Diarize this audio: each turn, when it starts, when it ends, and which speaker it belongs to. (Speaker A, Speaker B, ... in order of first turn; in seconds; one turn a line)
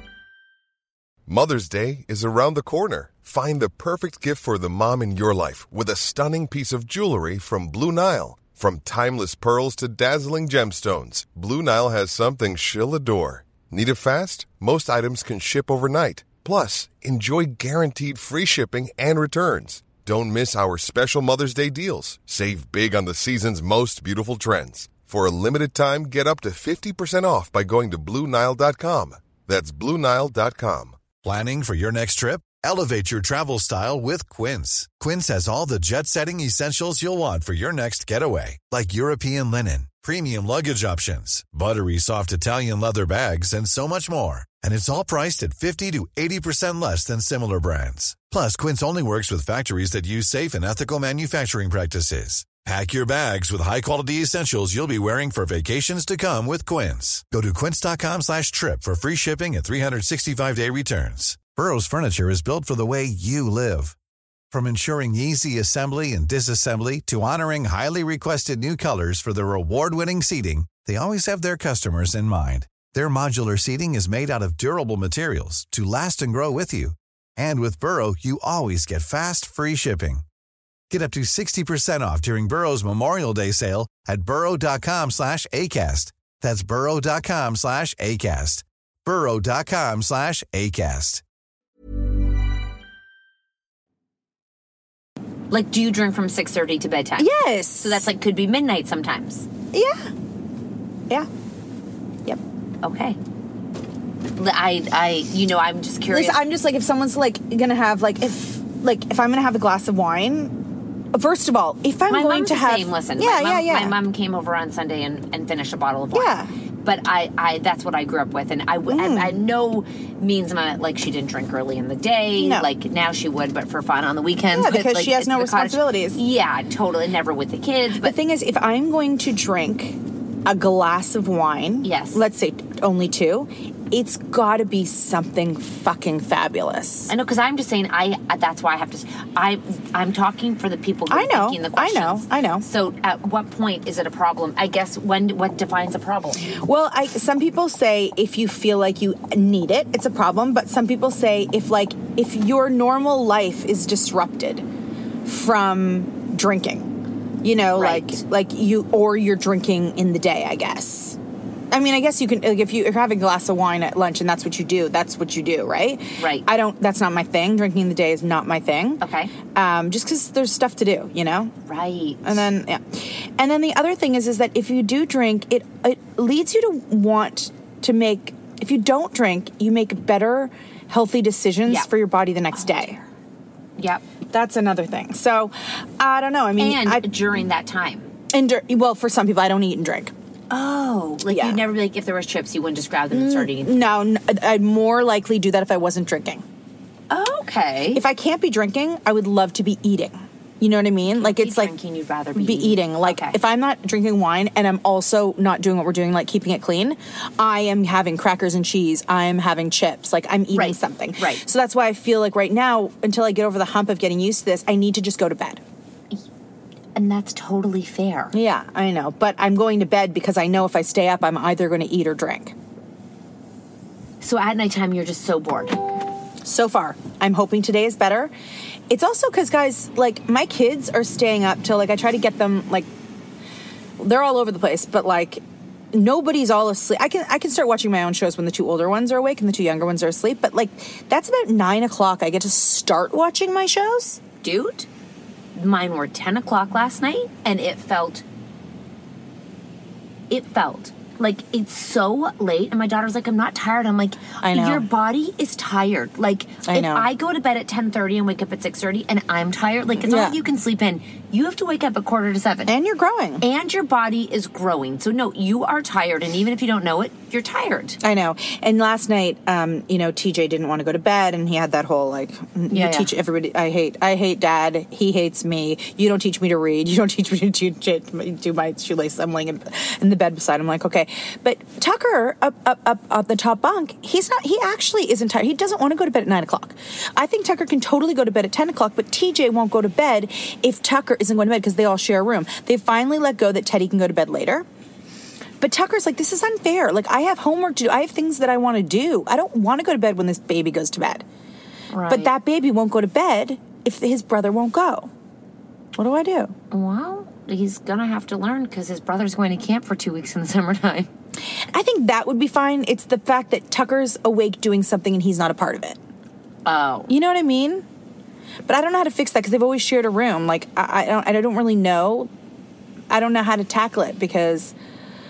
Speaker A: 1.3-31.0
Speaker B: 31.2-64.0
Speaker B: 64.5-80.2
Speaker B: 80.9-91.2
Speaker C: 95.5-97.3
Speaker D: 97.2-98.1
Speaker C: 97.8-99.5
Speaker D: 99.7-100.1
Speaker C: 102.8-103.2
Speaker C: 104.4-106.4
Speaker D: 106.1-110.6
Speaker D: 111.1-114.0
Speaker C: 112.1-128.2
Speaker D: 116.1-116.5
Speaker D: 118.9-119.4
Speaker D: 122.4-122.7
Speaker D: 124.5-126.2
Speaker D: 128.0-137.1
Speaker C: 131.8-132.2
Speaker C: 137.1-146.5
Speaker D: 141.1-142.7
Speaker D: 146.6-154.6
Speaker D: 155.2-161.2
Speaker C: 157.7-158.2
Speaker D: 161.7-171.5
Speaker C: 166.2-166.5
Speaker C: 169.0-169.3
Speaker C: 171.7-172.4
Speaker D: 172.2-183.0
Speaker C: 183.8-184.0
Speaker D: 184.3-187.1
Speaker C: 186.6-188.1
Speaker D: 188.3-190.1
Speaker C: 190.5-193.7
Speaker D: 191.3-191.6
Speaker D: 193.1-196.4
Speaker C: 197.1-198.0
Speaker D: 197.9-201.7
Speaker C: 201.1-203.3
Speaker D: 202.3-215.6
Speaker C: 210.5-211.4
Speaker C: 216.9-218.3
Speaker D: 218.3-222.5
Speaker C: 224.2-225.8
Speaker D: 226.4-228.3
Speaker D: 228.9-232.9
Speaker D: 234.0-235.4
Speaker D: 235.9-244.2
Speaker C: 244.4-244.9
Speaker C: 245.6-248.2
Speaker C: 250.3-262.7
Speaker D: 254.4-254.8
Speaker D: 256.7-257.1
Speaker D: 260.0-260.4
Speaker D: 262.7-263.4
Speaker C: 263.4-268.0
Speaker D: 268.0-294.6
Speaker C: 272.7-273.1
Speaker D: 295.6-301.2
Speaker C: 301.9-302.3
Speaker D: 302.1-305.1
Speaker D: 306.0-306.5
Speaker C: 306.7-311.1
Speaker D: 311.7-316.0
Speaker C: 316.7-317.1
Speaker D: 317.1-317.9
Speaker D: 318.7-322.3
Speaker D: 323.1-324.7